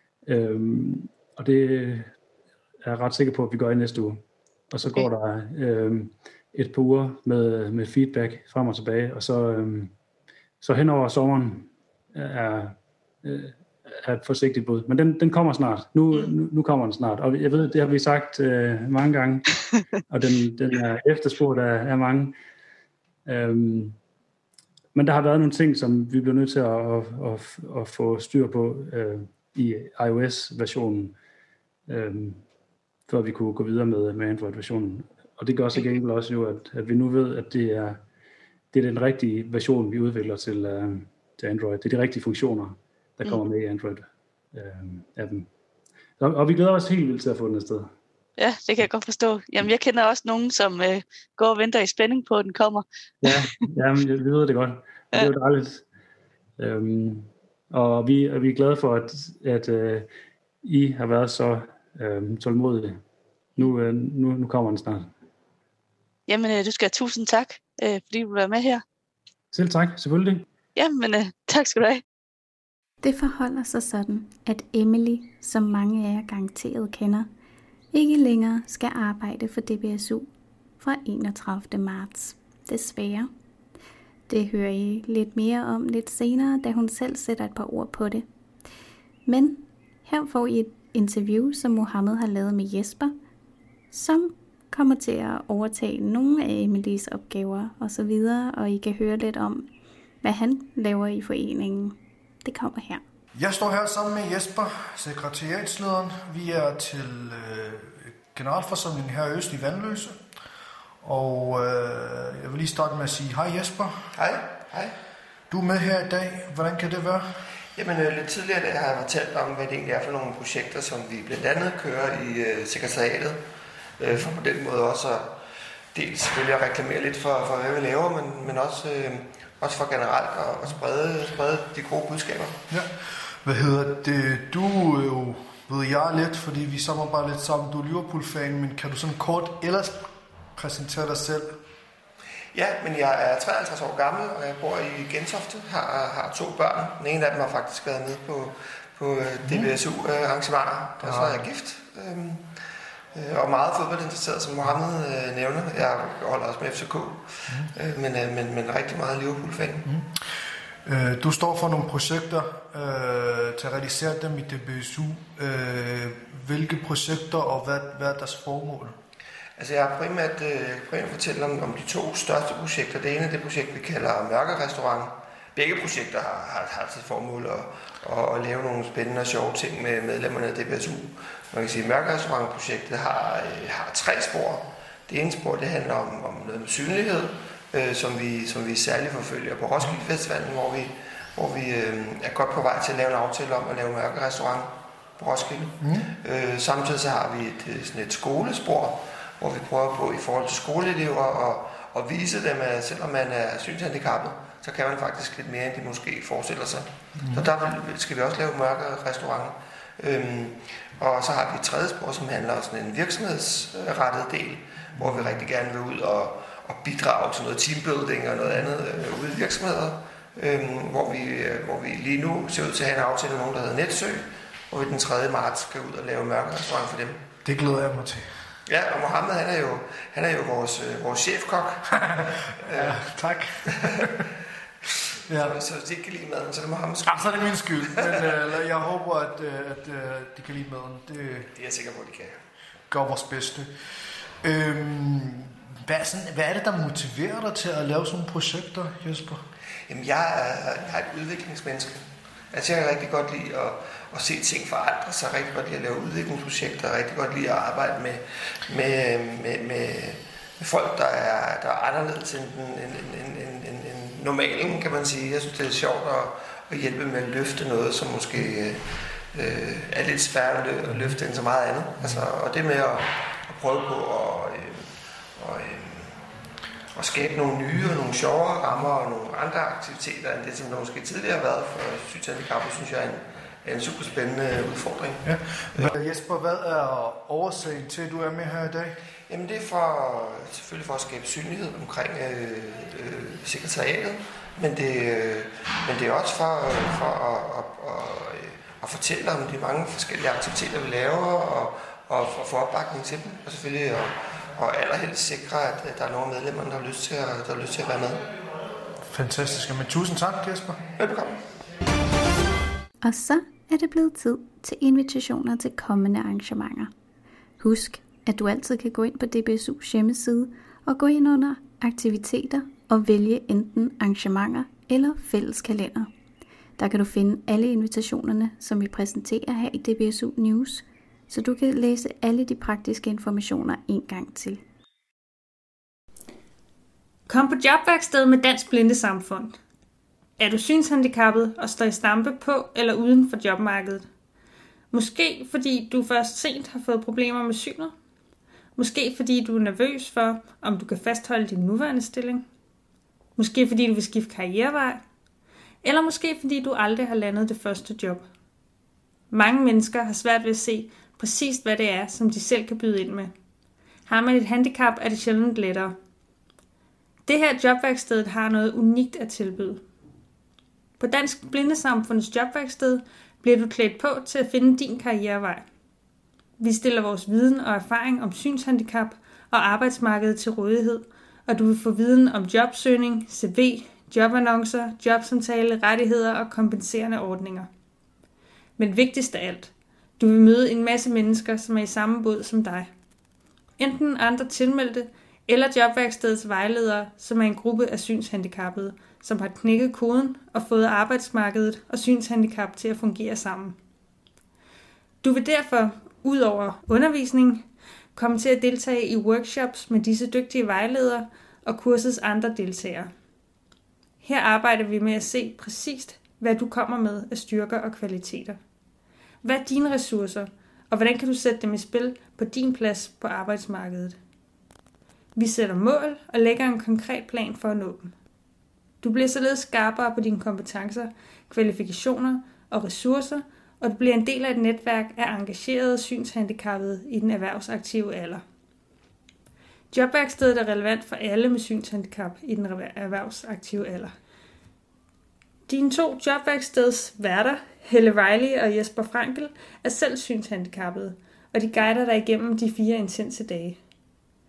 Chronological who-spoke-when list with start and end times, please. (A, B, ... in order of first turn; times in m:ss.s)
0:00.3-0:02.1 A
0:02.8-0:09.9 A
0:10.6-0:19.4 A
0:20.1-0:22.4 A
0:23.2-0:24.0 A
0:24.9-0:31.1 A
0:31.9-0:32.4 A
0:33.1-0:38.0 A
0:38.7-0:45.5 A
0:46.2-0:47.9 A
0:48.4-0:52.8 B
0:53.2-0:55.8 A
0:56.6-1:00.1 A
1:00.6-1:03.0 A
1:03.6-1:05.1 A
1:06.3-1:08.8 B
1:09.5-1:10.4 A
1:10.8-1:12.0 B
1:13.0-1:17.3 C
1:17.9-1:20.3 C
1:20.8-1:23.3 C
1:24.3-1:28.2 C
1:29.2-1:33.1 C
1:33.9-1:39.7 C
1:40.2-1:43.0 C
1:43.3-1:50.2 D
1:51.0-1:54.1 D
1:54.1-1:54.9 E
1:55.5-1:57.4 D
1:57.7-2:03.4 E
2:04.0-2:05.3 E
2:05.9-2:12.6 E
2:12.7-2:21.6 D
2:22.5-2:32.6 E
2:29.4-2:29.8 D
2:31.0-2:31.5 D
2:33.1-2:39.9 E
2:37.5-2:37.7 D
2:39.8-2:40.2 D
2:40.8-2:49.0 D
2:49.6-3:47.2 E
3:15.8-3:16.1 D
3:27.2-3:27.5 D
3:35.0-3:35.4 D
3:47.4-3:48.4 D
3:48.6-3:51.9 E
3:51.9-3:54.2 D
3:52.6-3:53.0 E
3:55.3-3:55.6 D
3:55.3-3:58.2 E
3:57.0-4:01.5 D
4:01.5-4:02.4 E
4:02.9-4:09.4 D
4:09.9-4:36.2 E
4:30.9-4:31.2 D
4:36.9-4:45.9 E
4:45.2-4:49.0 D
4:49.3-5:08.2 E
5:09.0-5:10.8 D
5:11.0-5:11.4 E
5:13.0-5:16.9 C
5:17.6-5:26.1 C
5:26.8-5:34.6 C
5:37.3-5:39.6 F
5:40.4-5:44.1 F
5:44.9-5:47.9 F
5:48.8-5:52.4 F
5:53.4-5:55.0 F
5:55.8-5:58.2 F
5:59.3-6:03.3 F
6:04.1-6:05.9 F
6:07.3-6:09.8 F
6:11.0-6:15.6 F
6:16.6-6:27.7 F
6:28.8-6:32.9 F
6:33.8-6:43.8 F
6:45.2-6:53.1 F
6:54.2-6:58.6 F
6:59.4-7:04.2 F
7:05.3-7:08.1 F
7:09.0-7:18.4 F
7:19.9-7:24.1 F
7:25.7-7:33.8 F